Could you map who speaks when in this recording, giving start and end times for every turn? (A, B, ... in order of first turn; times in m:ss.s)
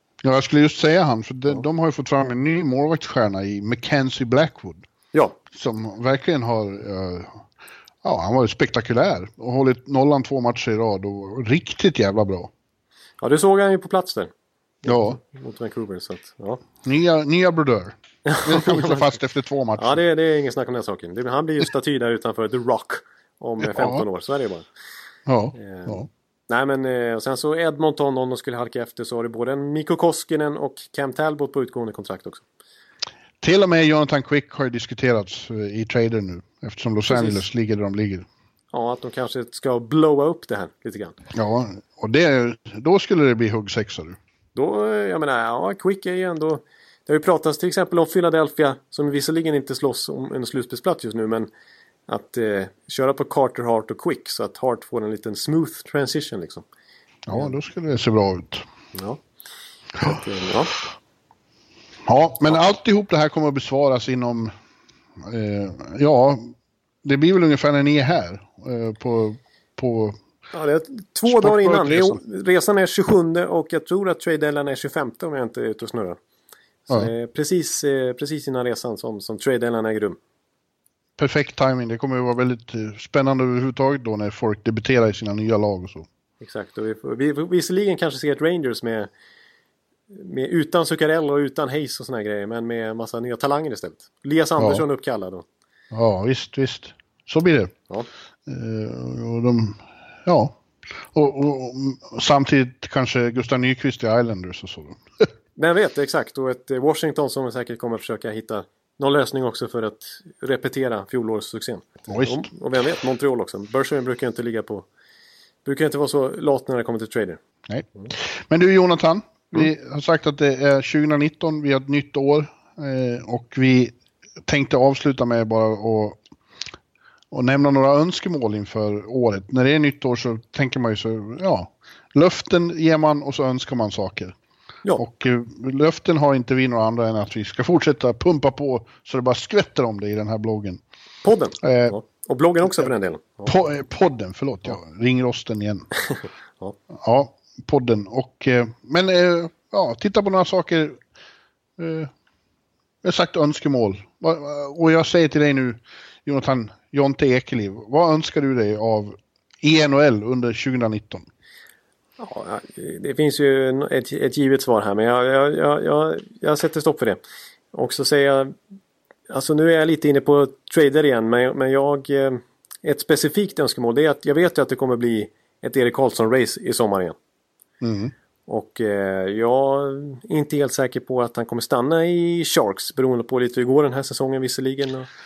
0:00.2-0:04.8 A
0:05.5-0:07.4 A
0:08.0-0:12.5 A
0:13.2-0:14.3 B
0:14.8-0:16.6 B
0:14.8-0:15.2 A
0:16.8-0:20.0 A
0:18.2-0:19.1 B
0:19.8-0:24.6 B
0:23.6-0:24.0 A
0:25.3-0:26.1 A
0:25.6-0:32.4 B
0:33.4-0:38.2 A
0:37.1-0:37.4 B
0:38.7-0:41.2 B
0:41.3-0:44.2 A
0:44.5-0:51.5 B
0:52.1-0:56.6 B
0:57.3-0:58.6 A
0:58.9-0:59.2 B
1:00.0-1:00.7 B
1:02.0-1:04.5 A
1:05.2-1:06.5 A
1:07.0-1:10.2 A
1:10.5-1:16.2 B
1:11.2-1:12.2 A
1:16.9-1:20.2 B
1:21.2-1:26.0 A
1:26.4-1:29.1 B
1:30.1-1:35.4 B
1:34.6-1:34.8 A
1:35.9-1:37.7 A
1:38.5-1:40.6 A
1:41.1-1:45.2 A
1:45.6-1:54.8 B
1:52.1-1:52.5 A
1:55.6-1:57.4 B
1:57.7-2:03.9 A
2:04.4-2:06.2 A
2:07.3-2:14.3 A
2:15.0-2:20.8 A
2:21.2-2:23.5 B
2:21.6-2:22.0 A
2:23.4-2:25.9 A
2:26.9-2:31.0 A
2:31.8-2:32.1 A
2:33.0-2:41.2 A
2:42.2-2:47.2 B
2:47.7-2:48.5 B
2:49.3-2:57.2 B
2:57.8-2:58.1 A
2:58.5-3:05.1 B